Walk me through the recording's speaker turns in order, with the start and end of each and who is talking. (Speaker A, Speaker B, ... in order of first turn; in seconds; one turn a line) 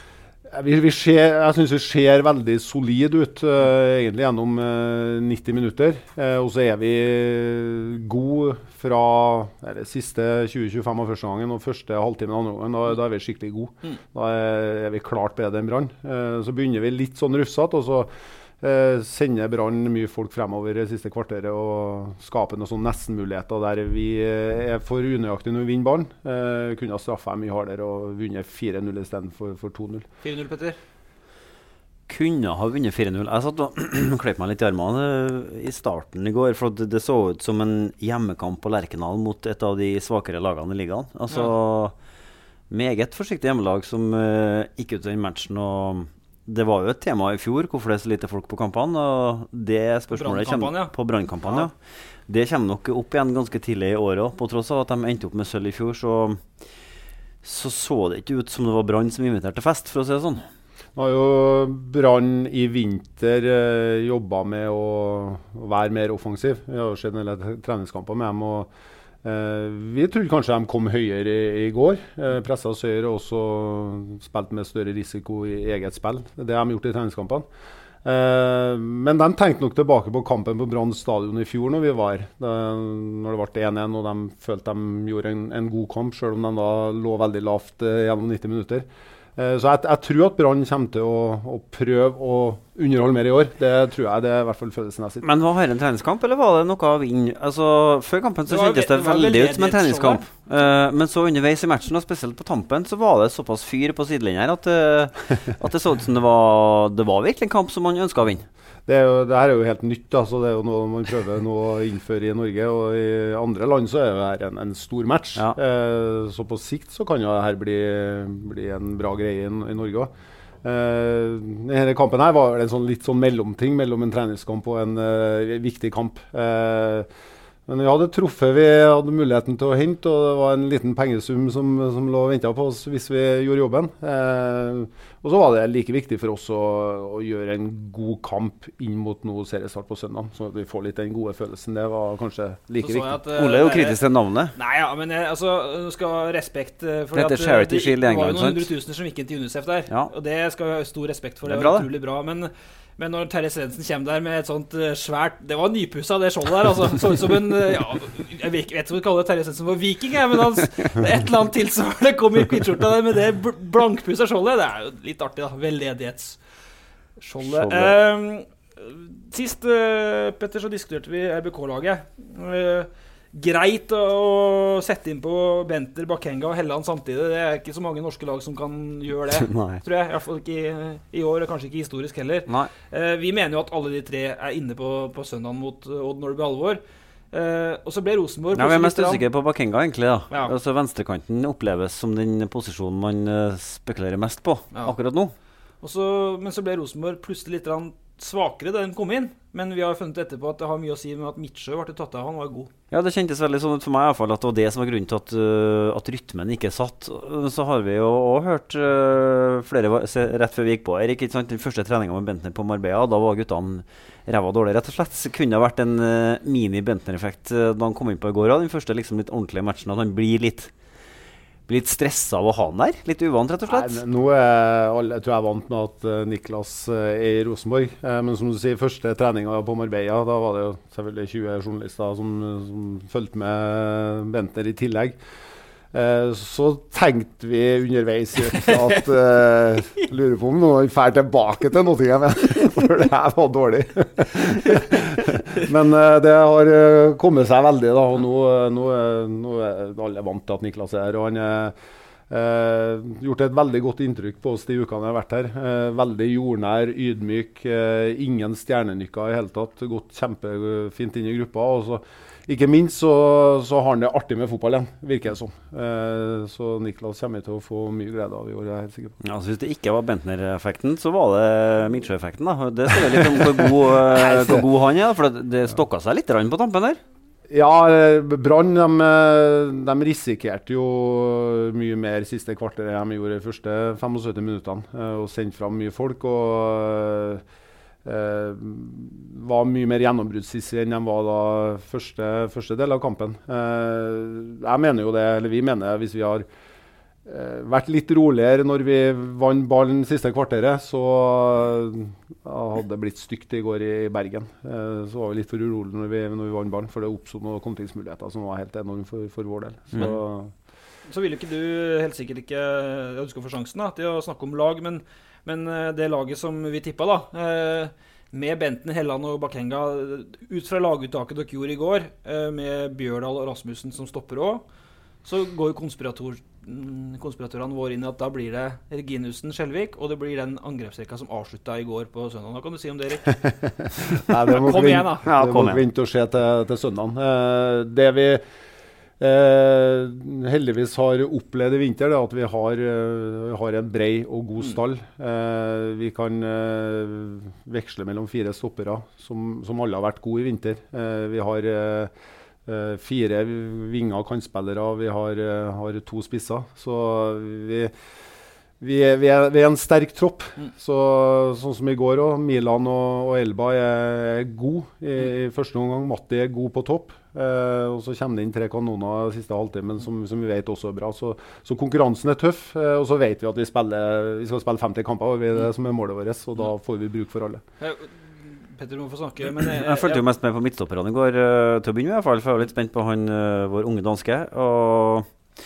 Speaker A: 0.5-30.1
Speaker B: 30.2-30.8
Speaker C: 32.1-41.9
Speaker C: 42.7-51.7
Speaker B: 50.1-50.9
Speaker C: 52.3-56.4
Speaker C: 57.4-60.4
Speaker A: 60.9-68.7
Speaker A: 69.2-77.4
Speaker A: 78.0-95.2
Speaker C: 95.2-108.5
Speaker B: 98.5-100.2
Speaker A: 108.8-120.1
Speaker A: 120.6-127.1
Speaker A: 127.7-143.2
Speaker B: 142.8-144.0
Speaker C: 143.3-144.5
Speaker B: 144.6-166.4
Speaker C: 147.1-148.7
Speaker C: 151.5-151.9
Speaker B: 167.2-186.8
Speaker C: 167.4-168.0
Speaker C: 179.4-179.8
Speaker C: 182.5-182.7
Speaker B: 187.3-189.2
Speaker C: 188.5-195.3
Speaker B: 195.8-202.7
Speaker C: 202.9-220.7
Speaker C: 221.7-224.0
Speaker A: 223.7-235.2
Speaker A: 235.9-251.8
Speaker A: 252.3-269.2
Speaker C: 269.2-277.0
Speaker A: 274.1-274.6
Speaker A: 277.5-287.4
Speaker A: 288.0-296.5
Speaker A: 297.2-310.5
Speaker B: 311.1-324.6
Speaker B: 325.2-333.3
Speaker A: 333.8-338.4
Speaker B: 334.5-335.2
Speaker C: 335.2-335.8
Speaker A: 339.2-352.1
Speaker A: 352.6-357.9
Speaker A: 358.8-377.6
Speaker B: 377.8-378.1
Speaker B: 378.7-380.2
Speaker C: 379.6-385.3